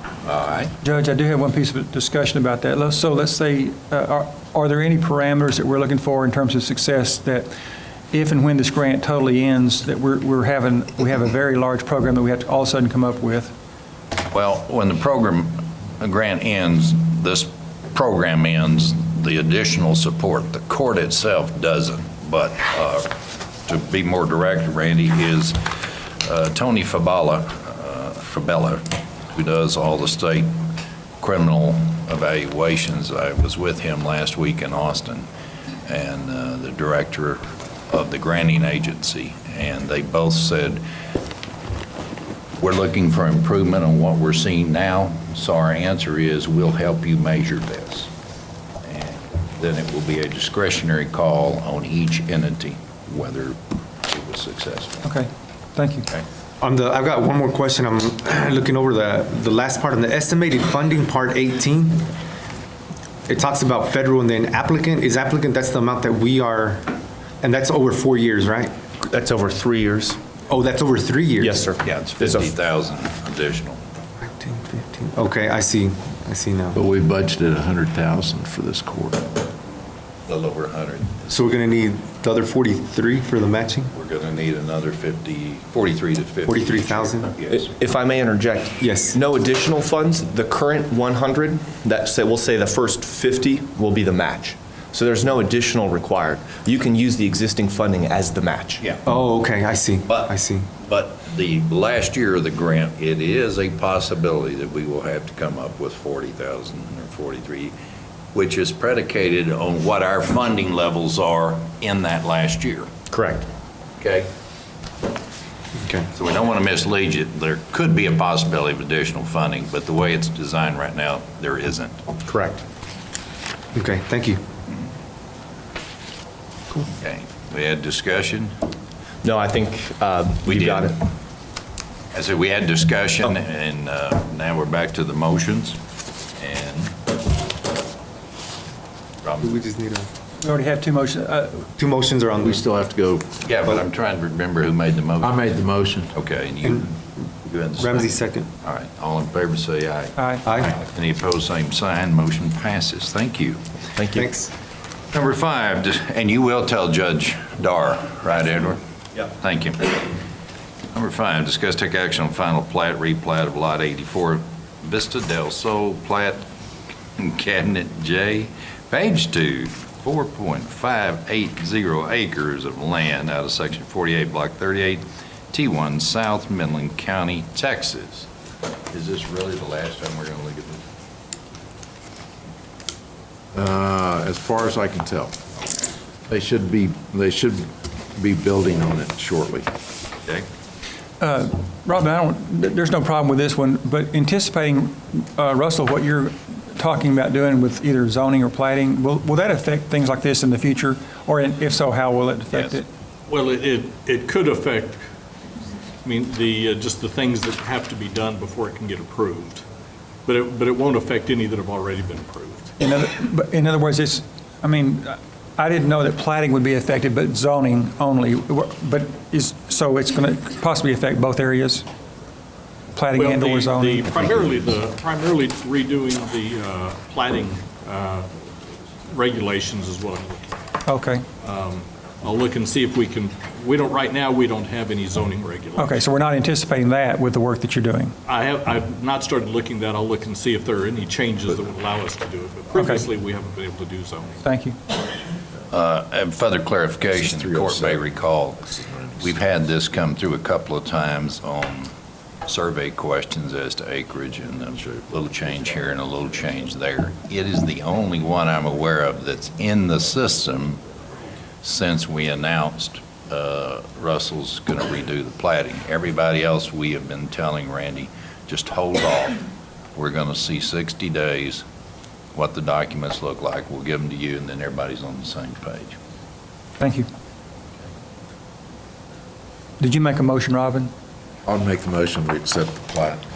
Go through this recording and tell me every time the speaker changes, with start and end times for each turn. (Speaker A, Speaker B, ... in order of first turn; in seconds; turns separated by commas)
Speaker A: 0.2-0.7, Speaker B: 0.8-7.5, Speaker B: 8.1-13.5, Speaker A: 14.3-23.1, Speaker A: 23.6-25.7, Speaker A: 26.2-30.5, Speaker A: 31.2-35.3, Speaker A: 35.9-40.8, Speaker A: 42.6-48.1, Speaker A: 48.8-53.6, Speaker A: 54.1-55.0, Speaker B: 55.0-56.1, Speaker C: 56.6-62.1, Speaker C: 63.3-68.7, Speaker D: 69.0-70.2, Speaker C: 70.5-71.6, Speaker D: 71.4-72.5, Speaker A: 71.8-73.8, Speaker C: 74.2-76.8, Speaker E: 76.7-79.2, Speaker A: 80.3-81.3, Speaker C: 81.3-83.9, Speaker A: 83.9-87.7, Speaker C: 86.4-87.3, Speaker D: 87.6-98.8, Speaker C: 88.8-89.2, Speaker C: 99.0-100.7, Speaker A: 100.1-107.7, Speaker A: 108.3-112.9, Speaker D: 113.1-113.5, Speaker A: 114.0-114.3, Speaker C: 115.8-116.1, Speaker A: 116.1-122.0, Speaker D: 122.2-122.6, Speaker C: 123.7-124.4, Speaker A: 127.0-128.5, Speaker D: 129.2-130.9, Speaker A: 130.4-130.9, Speaker A: 132.1-135.8, Speaker A: 136.4-136.9, Speaker A: 139.2-139.5, Speaker C: 139.4-140.1, Speaker B: 140.4-141.7, Speaker C: 141.8-142.6, Speaker E: 142.4-143.4, Speaker A: 143.4-145.6, Speaker E: 145.2-146.1, Speaker A: 146.1-153.6, Speaker C: 146.6-146.9, Speaker C: 147.8-148.5, Speaker B: 150.2-150.5, Speaker C: 150.4-150.7, Speaker D: 153.9-154.3, Speaker C: 154.1-154.5, Speaker A: 155.1-160.1, Speaker A: 160.9-166.4, Speaker A: 167.2-178.3, Speaker A: 178.9-180.8, Speaker E: 183.5-185.3, Speaker E: 186.3-187.6, Speaker E: 188.2-189.7, Speaker B: 191.2-202.9, Speaker F: 203.3-205.0, Speaker F: 206.0-209.6, Speaker F: 210.2-212.7, Speaker B: 212.8-221.8, Speaker B: 222.9-224.3, Speaker F: 223.1-228.3, Speaker F: 229.1-230.7, Speaker B: 230.8-231.2, Speaker F: 231.4-236.1, Speaker B: 235.8-238.2, Speaker F: 238.2-244.4, Speaker B: 242.8-243.0, Speaker B: 244.4-244.8, Speaker A: 245.7-251.9, Speaker E: 247.1-248.0, Speaker E: 248.8-249.2, Speaker A: 252.4-260.8, Speaker A: 261.6-269.4, Speaker A: 269.9-271.6, Speaker A: 272.3-275.9, Speaker B: 276.8-277.1, Speaker B: 279.8-280.9, Speaker E: 281.4-283.2